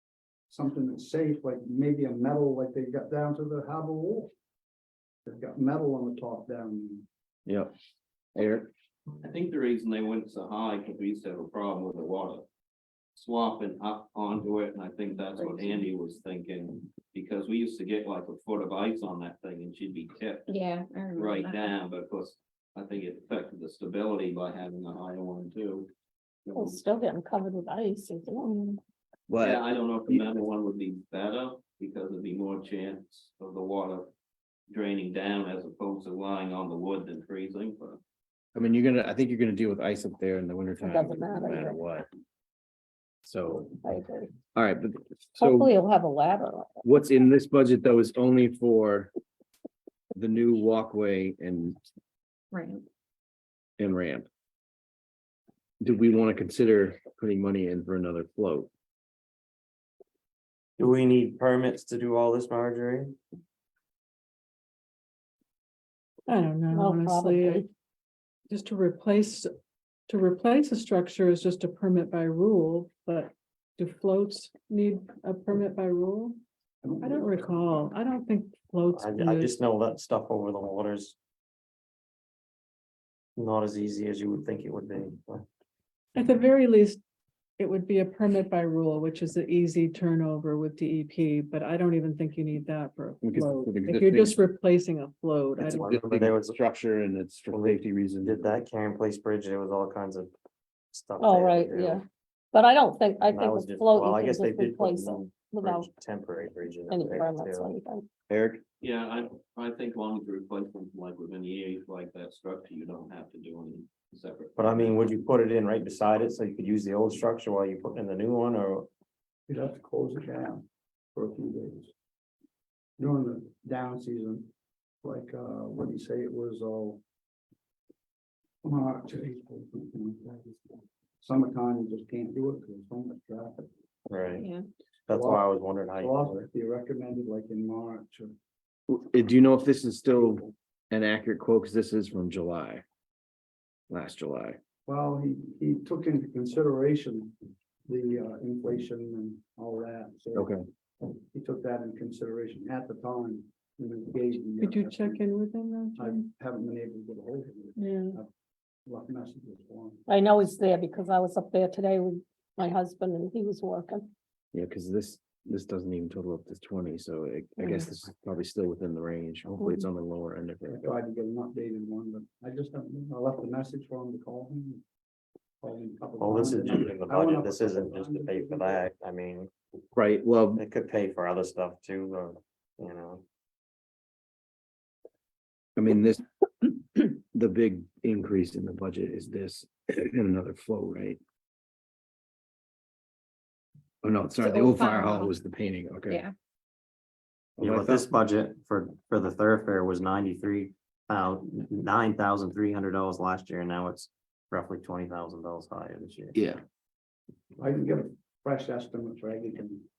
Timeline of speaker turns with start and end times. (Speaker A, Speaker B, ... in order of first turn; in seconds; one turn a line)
Speaker A: 0.5-4.3
Speaker A: 5.3-7.1
Speaker B: 8.3-8.7
Speaker C: 9.2-12.4
Speaker C: 13.2-20.5
Speaker D: 20.5-21.8
Speaker C: 21.1-25.9
Speaker C: 26.4-26.9
Speaker E: 26.5-28.8
Speaker B: 29.3-30.3
Speaker C: 29.4-34.1
Speaker C: 34.7-38.0
Speaker B: 38.5-42.1
Speaker E: 40.8-41.8
Speaker B: 43.2-43.7
Speaker E: 43.6-44.3
Speaker B: 44.5-45.7
Speaker E: 45.4-46.8
Speaker B: 46.8-49.1
Speaker B: 50.1-51.8
Speaker D: 52.5-52.8
Speaker B: 53.8-54.3
Speaker B: 55.8-58.7
Speaker F: 60.8-63.2
Speaker G: 66.3-67.7
Speaker E: 66.7-67.7
Speaker G: 68.5-69.5
Speaker G: 70.1-76.4
Speaker A: 76.8-77.9
Speaker G: 77.0-79.6
Speaker F: 78.9-81.2
Speaker F: 83.4-85.5
Speaker G: 86.2-87.0
Speaker G: 87.6-95.9
Speaker B: 93.2-94.4
Speaker F: 95.6-96.6
Speaker B: 95.7-98.5
Speaker F: 97.5-100.3
Speaker F: 100.9-102.0
Speaker E: 101.2-105.9
Speaker F: 103.3-107.7
Speaker E: 106.9-108.1
Speaker B: 108.3-108.6
Speaker C: 108.8-115.0
Speaker F: 114.6-118.9
Speaker A: 119.5-121.9
Speaker A: 123.0-124.5
Speaker A: 125.0-127.0
Speaker A: 128.6-133.7
Speaker F: 134.1-134.4
Speaker D: 134.4-134.7
Speaker F: 135.1-136.5
Speaker A: 135.1-138.3
Speaker B: 138.9-142.8
Speaker A: 140.1-140.5
Speaker B: 143.9-144.6
Speaker A: 144.9-147.3
Speaker A: 147.9-155.2
Speaker B: 150.3-150.6
Speaker G: 154.6-156.3
Speaker A: 156.0-158.3
Speaker G: 157.8-158.2
Speaker A: 158.9-160.0
Speaker E: 160.1-164.1
Speaker B: 164.5-170.9
Speaker E: 169.6-169.8
Speaker A: 170.7-174.8
Speaker A: 175.6-178.8
Speaker F: 176.2-179.5
Speaker B: 179.9-180.6
Speaker F: 180.6-183.2
Speaker B: 185.8-191.2
Speaker B: 194.0-196.2
Speaker D: 194.4-195.3
Speaker D: 196.1-196.3
Speaker B: 197.6-198.1
Speaker F: 197.6-206.4
Speaker B: 206.3-206.6
Speaker A: 207.6-209.9